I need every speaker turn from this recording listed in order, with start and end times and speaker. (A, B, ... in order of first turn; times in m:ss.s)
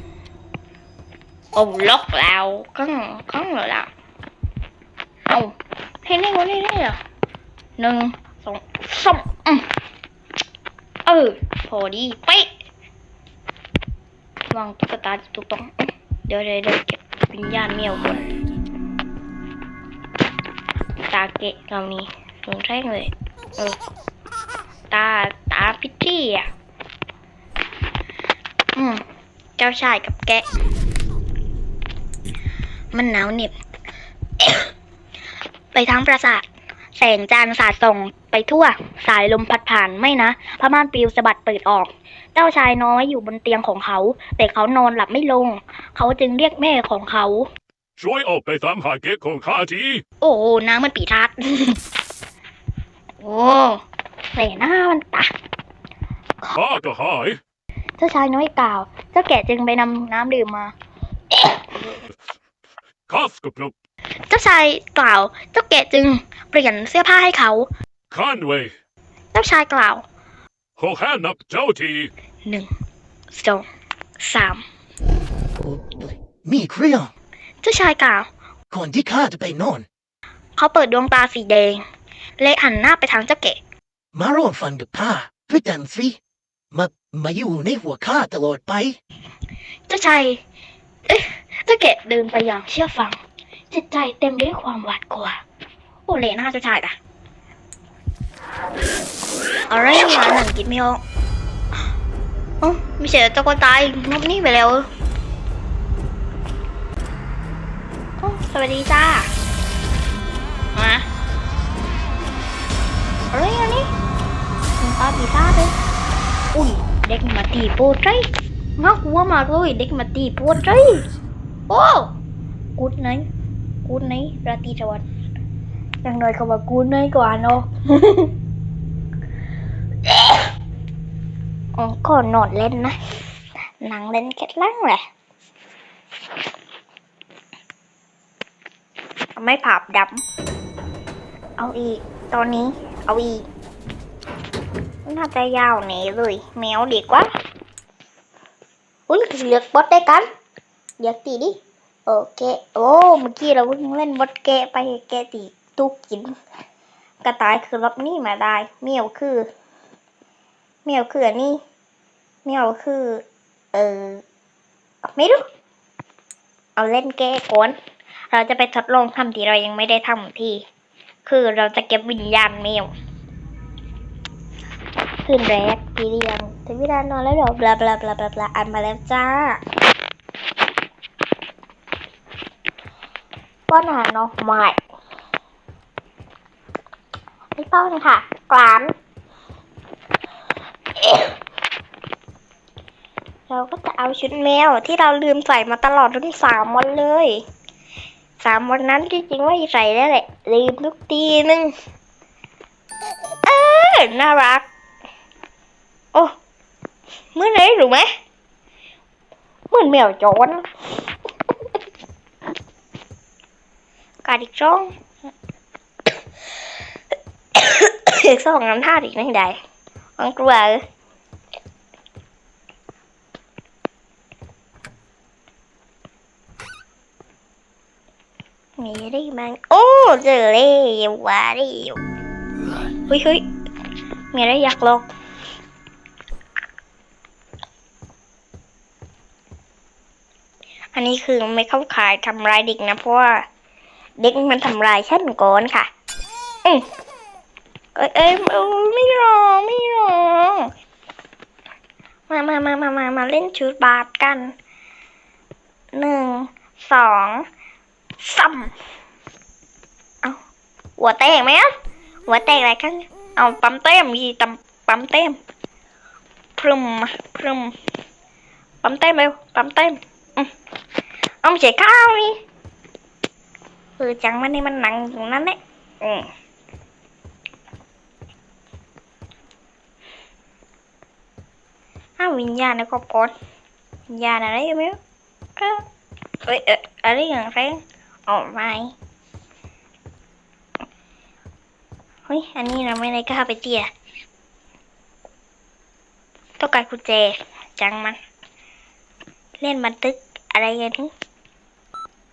0:01.5-0:03.9 A
0:05.3-0:05.5 A
0:06.0-0:07.0 A
0:07.8-0:09.7 A
0:11.0-0:12.5 A
0:14.5-0:18.3 A
0:21.1-0:23.8 A
0:24.9-0:26.5 A
0:28.7-0:29.0 A
0:29.6-0:30.4 A
0:32.9-0:33.5 A
0:34.4-0:34.7 A
0:35.7-0:36.4 A
0:37.0-0:47.5 A
0:48.0-0:50.0 B
0:50.2-0:51.8 A
0:53.2-0:53.8 A
0:54.3-0:55.3 A
0:56.5-0:57.4 B
0:58.0-1:00.7 A
1:01.3-1:01.6 A
1:03.1-1:03.7 B
1:04.3-1:07.7 A
1:08.1-1:08.7 B
1:09.3-1:10.0 A
1:10.8-1:12.1 B
1:12.4-1:12.7 A
1:13.3-1:13.6 A
1:14.2-1:14.6 A
1:15.6-1:17.1 C
1:17.6-1:18.3 A
1:18.7-1:19.8 C
1:20.6-1:21.8 A
1:22.4-1:23.6 A
1:24.1-1:26.2 C
1:26.7-1:29.0 C
1:29.9-1:30.4 A
1:31.1-1:33.2 A
1:33.7-1:35.4 A
1:36.1-1:37.0 A
1:39.7-1:41.0 A
1:42.6-1:44.8 A
1:48.2-1:49.3 A
1:50.7-1:51.0 A
1:53.3-1:53.9 A
1:54.8-1:55.7 A
1:56.5-1:58.2 A
1:58.8-2:01.0 A
2:01.7-2:02.1 A
2:02.8-2:03.3 A
2:03.8-2:05.0 A
2:06.0-2:08.3 A
2:10.1-2:10.4 A
2:11.8-2:13.0 A
2:13.8-2:15.0 A
2:19.4-2:20.2 A
2:21.6-2:23.4 A
2:25.0-2:27.3 A
2:29.1-2:30.3 A
2:31.0-2:36.3 A
2:37.2-2:39.5 A
2:40.8-2:41.6 A
2:42.4-2:44.2 A
2:45.0-2:45.4 A
2:46.8-2:47.8 A
2:48.3-2:50.6 A
2:51.2-2:52.9 A
2:55.2-2:59.6 A
3:03.7-3:04.8 A
3:07.5-3:08.9 A
3:11.0-3:11.4 A
3:13.5-3:17.4 A
3:18.4-3:21.7 A
3:23.4-3:24.6 A
3:27.3-3:28.1 A
3:29.7-3:30.6 A
3:34.2-3:34.9 A
3:37.5-3:39.6 A
3:40.2-3:40.8 A
3:48.8-3:52.0 A
3:53.1-3:53.4 A
3:54.3-3:55.0 A
4:00.9-4:03.4 A
4:04.2-4:05.9 A
4:08.0-4:10.7 A
4:12.3-4:14.5 A
4:15.9-4:17.4 A
4:18.2-4:18.7 A
4:21.0-4:21.7 A
4:22.3-4:25.4 A
4:26.6-4:27.7 A
4:28.8-4:30.5 A
4:31.4-4:32.3 A
4:34.0-4:36.3 A
4:42.2-4:43.3 A
4:44.1-4:45.0 A
4:45.6-4:45.8 A
4:46.4-4:48.9 A
4:52.3-4:53.9 A
4:56.6-4:58.2 A
4:59.6-5:01.1 A